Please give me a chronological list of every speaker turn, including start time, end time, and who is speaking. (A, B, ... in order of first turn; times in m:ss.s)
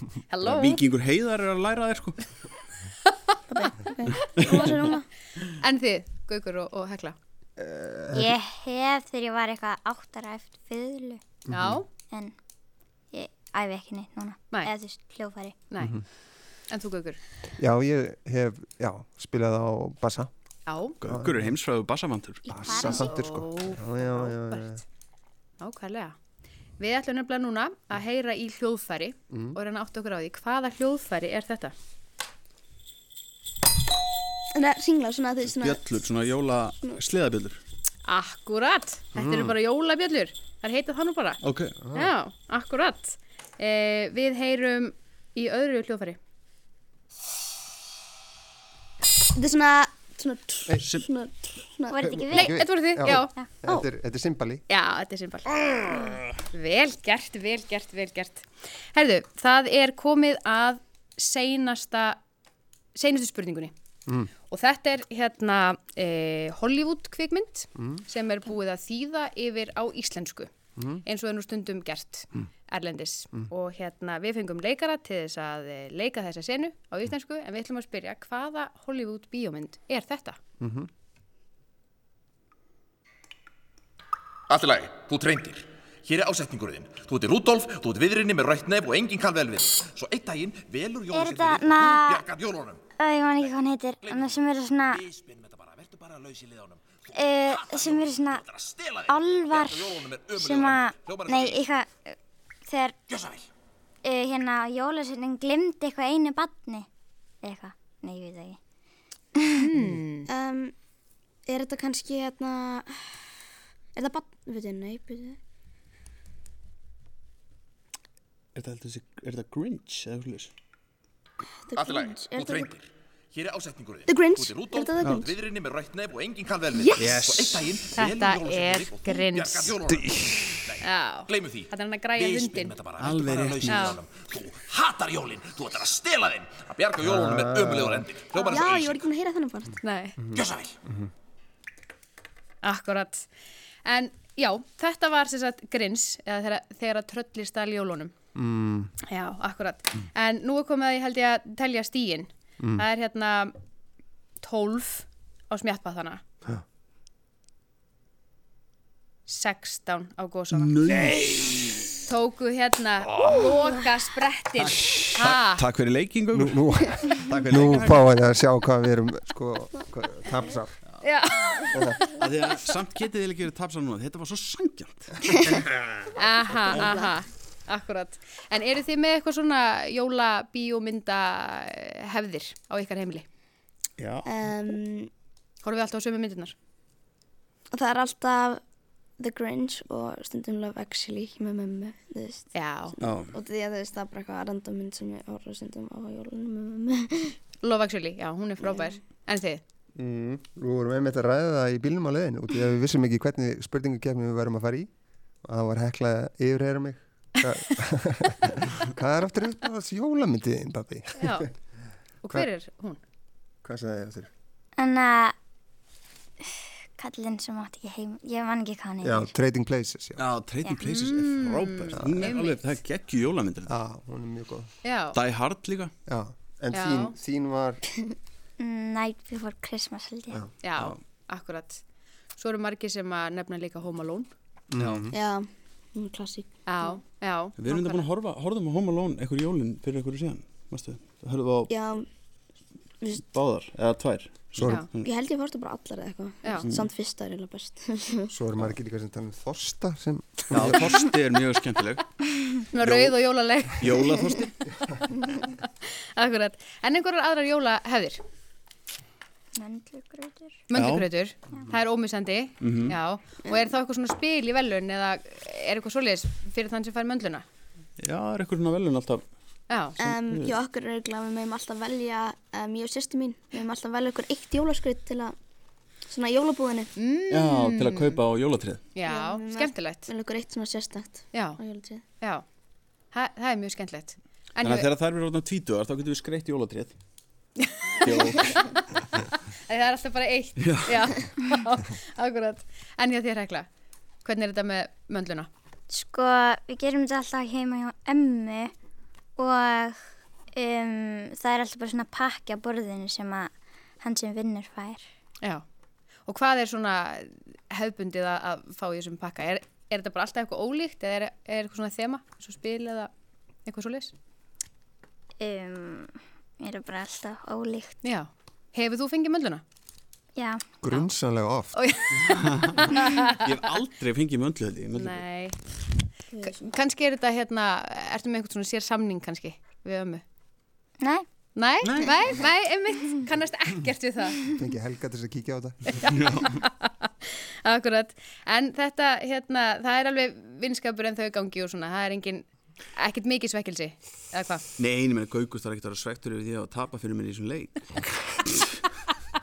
0:00.3-0:00.8 A
0:00.4-0:02.2 B
0:03.5-0:05.1 C
0:04.4-0:04.7 B
0:05.4-0:07.2 A
0:07.6-0:08.4 D
0:08.1-0:11.2 E
0:11.5-0:11.8 D
0:11.5-0:11.9 A
0:12.1-0:12.4 E
0:13.1-0:15.6 E
0:15.7-0:16.0 A
0:16.7-0:17.2 A
0:17.6-0:20.3 D
0:20.7-0:21.0 A
0:21.0-0:23.1 B
0:21.1-0:21.5 D
0:22.5-0:24.8 D
0:22.6-0:23.1 E
0:22.8-0:24.8 A
0:25.6-0:26.2 A
0:26.8-0:31.7 A
0:29.3-0:29.6 D
0:34.5-0:35.9 C
0:35.4-0:37.6 B
0:38.1-0:41.4 A
0:39.1-0:39.6 D
0:41.4-0:41.8 B
0:41.8-0:42.1 D
0:41.9-0:46.2 A
0:49.3-0:52.5 C
0:50.8-0:51.1 B
0:51.9-0:52.6 E
0:52.0-0:54.6 D
0:52.3-0:53.3 A
0:53.2-0:53.5 E
0:54.7-1:02.2 A
1:03.0-1:03.7 A
1:04.5-1:10.5 A
1:07.8-1:08.0 D
1:10.8-1:11.0 D
1:11.0-1:20.4 A
1:20.6-1:20.9 D
1:24.5-1:32.8 F
1:31.1-1:32.3 E
1:33.0-1:35.0 E
1:35.6-1:36.8 F
1:37.1-1:38.5 E
1:39.1-1:43.0 E
1:39.5-1:40.2 F
1:44.0-1:46.9 E
1:47.4-1:48.6 E
1:49.4-1:49.7 E
1:49.6-1:50.3 A
1:50.3-1:50.8 C
1:51.5-1:53.4 C
1:54.0-1:55.4 C
1:58.6-2:00.5 B
2:01.4-2:02.7 C
2:03.4-2:04.5 F
2:04.1-2:05.4 C
2:05.5-2:06.9 F
2:06.7-2:07.2 C
2:07.0-2:07.9 B
2:08.0-2:09.8 A
2:08.1-2:09.7 F
2:10.8-2:12.8 A
2:12.5-2:13.4 F
2:13.0-2:14.0 B
2:13.7-2:14.0 A
2:14.2-2:19.0 F
2:17.0-2:18.1 D
2:18.3-2:19.8 C
2:19.8-2:20.2 A
2:20.2-2:21.1 D
2:22.6-2:23.3 A
2:23.8-2:28.1 A
2:28.4-2:28.9 D
2:29.1-2:33.5 A
2:32.6-2:32.8 D
2:34.4-2:36.2 A
2:39.3-2:40.8 A
2:40.5-2:42.0 B
2:42.0-2:45.6 A
2:43.2-2:43.4 B
2:44.6-2:48.1 B
2:46.3-2:50.8 D
2:51.0-2:52.1 A
2:51.7-2:52.0 D
2:52.2-2:55.9 B
2:56.2-3:03.2 A
2:56.7-2:57.1 C
3:04.0-3:04.3 B
3:04.2-3:05.1 C
3:05.6-3:06.6 A
3:07.7-3:08.6 C
3:09.2-3:17.4 C
3:12.5-3:13.0 A
3:13.0-3:13.4 B
3:17.6-3:19.6 A
3:20.0-3:24.9 D
3:25.4-3:31.5 D
3:31.2-3:31.5 A
3:32.2-3:33.0 A
3:33.6-3:34.3 D
3:34.8-3:35.4 E
3:36.4-3:39.3 E
3:39.0-3:40.3 D
3:40.2-3:43.8 B
3:40.8-3:42.6 A
3:42.0-3:42.3 D
3:43.7-3:44.7 D
3:44.8-3:45.2 A
3:45.1-3:45.9 B
3:46.1-3:47.9 D
3:46.7-3:47.2 A
3:48.6-3:50.4 E
3:50.6-3:51.8 A
3:52.4-3:54.3 A
3:54.7-3:55.2 D
3:54.8-3:55.1 B
3:55.1-3:56.5 C
3:56.7-3:58.0 A
3:57.6-4:01.7 B
4:01.7-4:02.1 C
4:03.2-4:05.1 B
4:04.6-4:04.8 D
4:05.0-4:08.3 C
4:06.6-4:06.9 B
4:08.3-4:10.9 D
4:10.5-4:12.1 B
4:12.7-4:14.3 A
4:12.8-4:13.2 B
4:13.8-4:14.5 B
4:15.1-4:15.6 A
4:16.2-4:18.2 A
4:19.6-4:20.6 E
4:20.7-4:27.4 A
4:20.7-4:21.1 B
4:22.6-4:23.0 B
4:28.0-4:29.2 B
4:29.7-4:30.0 A
4:30.0-4:30.6 B
4:30.0-4:35.4 C
4:36.1-4:36.9 C
4:37.0-4:38.2 A
4:37.3-4:38.9 B
4:39.0-4:40.1 A
4:39.0-4:42.0 C
4:41.3-4:41.6 A
4:43.1-4:44.9 A
4:44.6-4:47.0 B
4:47.6-4:53.7 A
4:48.0-4:48.6 B
4:50.6-4:51.1 B
4:54.2-4:55.5 A
4:55.9-4:58.7 E
4:59.4-5:00.0 E
5:00.5-5:05.1 E
5:06.3-5:13.1 A
5:13.7-5:14.1 A
5:15.4-5:18.0 E
5:18.0-5:19.6 A
5:20.4-5:20.6 E
5:20.8-5:21.7 D
5:21.7-5:23.4 A
5:22.2-5:25.2 B
5:24.9-5:25.6 A
5:26.4-5:30.2 A
5:31.0-5:31.3 E
5:31.6-5:34.4 A
5:31.8-5:32.1 B
5:34.5-5:36.0 D
5:36.0-5:36.6 B
5:36.0-5:37.1 A
5:37.6-5:44.6 A
5:44.8-5:48.8 B